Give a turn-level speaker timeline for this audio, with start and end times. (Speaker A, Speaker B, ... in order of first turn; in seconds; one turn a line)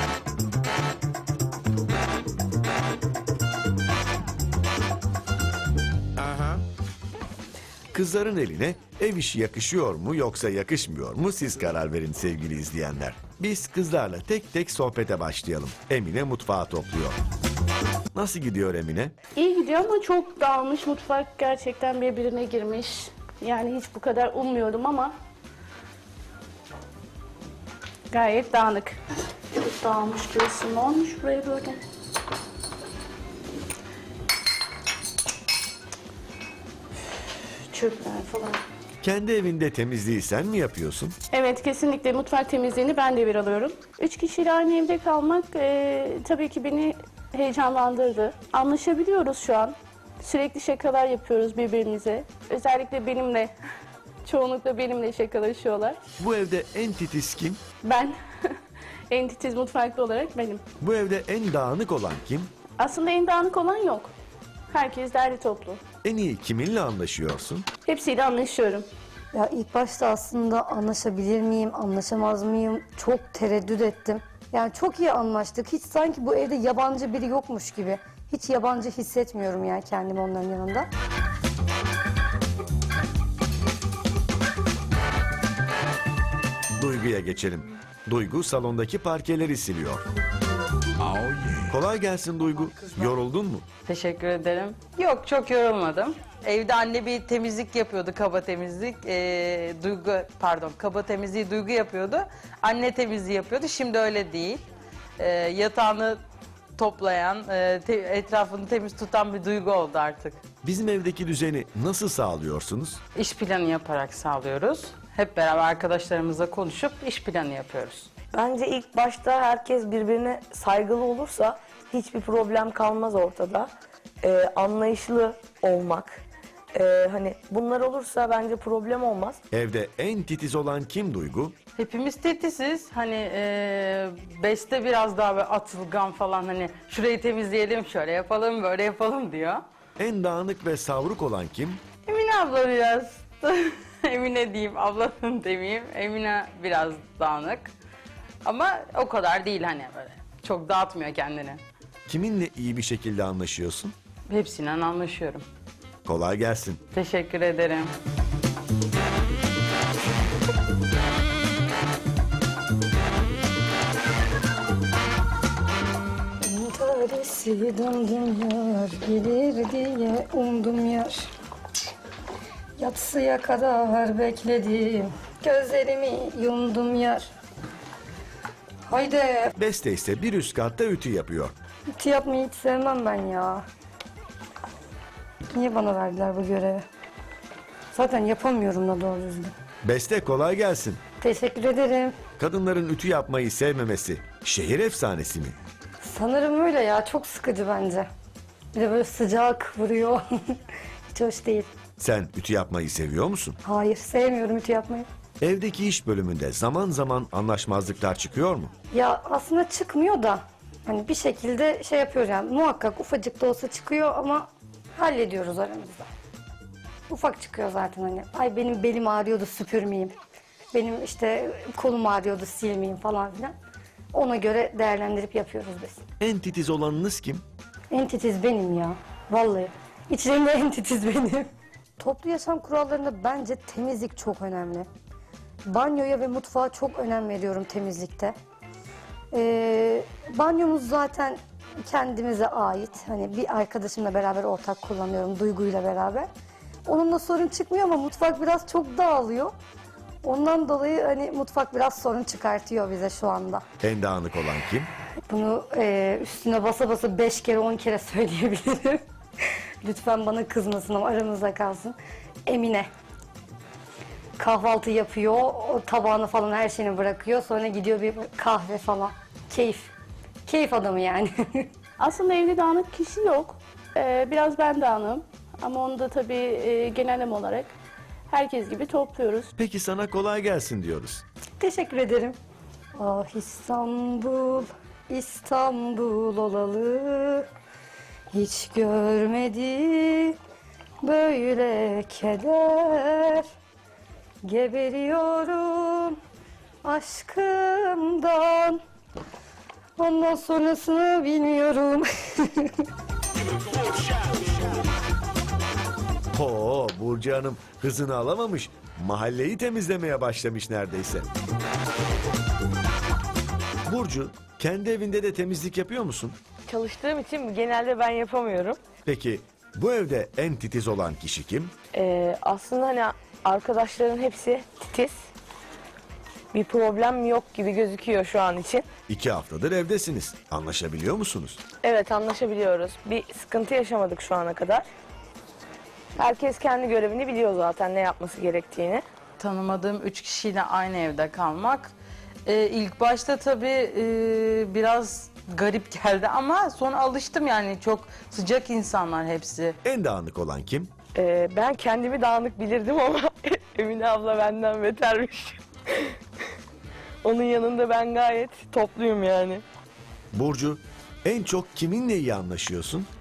Speaker A: 7.9-17.2
Speaker A: 18.1-19.1
Speaker B: 19.4-25.1
Speaker B: 28.1-29.0
Speaker B: 29.6-31.8
Speaker B: 37.7-38.6
Speaker A: 39.0-41.1
Speaker B: 41.3-53.5
Speaker B: 54.2-56.0
Speaker A: 56.2-57.6
Speaker B: 57.8-58.1
Speaker B: 59.1-60.6
Speaker A: 60.8-62.5
Speaker B: 62.8-64.1
Speaker B: 64.7-65.8
Speaker A: 66.0-67.7
Speaker B: 67.9-68.9
Speaker C: 69.3-80.9
Speaker A: 86.8-90.0
Speaker A: 91.7-93.7
Speaker D: 93.9-104.7
Speaker D: 105.2-106.2
Speaker D: 106.8-110.4
Speaker A: 110.6-113.0
Speaker D: 113.2-118.1
Speaker E: 118.3-123.7
Speaker E: 124.2-126.2
Speaker E: 126.7-129.4
Speaker A: 129.5-131.6
Speaker D: 131.8-139.6
Speaker A: 140.0-141.8
Speaker D: 142.1-147.7
Speaker D: 148.4-151.6
Speaker A: 152.1-154.0
Speaker D: 154.3-155.4
Speaker A: 156.1-156.8
Speaker D: 156.9-157.9
Speaker C: 166.4-171.3
Speaker C: 172.8-177.3
Speaker C: 178.9-179.5
Speaker A: 179.6-181.6
Speaker C: 182.0-183.6
Speaker C: 185.5-186.8
Speaker C: 187.9-189.5
Speaker A: 189.8-191.0
Speaker C: 191.2-192.2
Speaker A: 192.4-195.6
Speaker C: 196.0-198.1
Speaker C: 198.8-200.2
Speaker C: 201.1-201.7
Speaker A: 202.0-203.6
Speaker C: 203.6-205.1
Speaker A: 205.4-208.7
Speaker C: 208.9-216.1
Speaker C: 217.1-220.2
Speaker C: 220.7-223.5
Speaker C: 224.1-226.0
Speaker A: 226.2-227.4
Speaker C: 227.9-231.5
Speaker C: 232.0-234.9
Speaker C: 235.7-238.4
Speaker C: 239.3-246.3
Speaker C: 246.9-249.5
Speaker C: 250.2-253.6
Speaker A: 253.8-254.9
Speaker C: 255.3-259.0
Speaker C: 259.8-262.0
Speaker C: 262.5-262.9
Speaker C: 264.4-269.9
Speaker C: 270.5-271.7
Speaker B: 272.0-277.7
Speaker B: 278.3-279.5
Speaker A: 279.6-281.2
Speaker C: 281.6-282.4
Speaker C: 283.0-287.4
Speaker C: 288.3-290.4
Speaker C: 291.0-293.5
Speaker C: 294.4-296.2
Speaker C: 296.8-298.8
Speaker C: 300.0-302.7
Speaker A: 306.3-311.3
Speaker A: 313.9-316.4
Speaker E: 316.7-318.8
Speaker A: 319.1-321.7
Speaker E: 321.9-325.2
Speaker E: 326.5-328.9
Speaker A: 329.1-331.6
Speaker E: 331.8-334.9
Speaker E: 336.2-339.0
Speaker D: 339.4-341.9
Speaker D: 342.5-349.8
Speaker A: 349.8-350.9
Speaker E: 351.1-356.0
Speaker E: 357.2-359.6
Speaker A: 360.3-363.1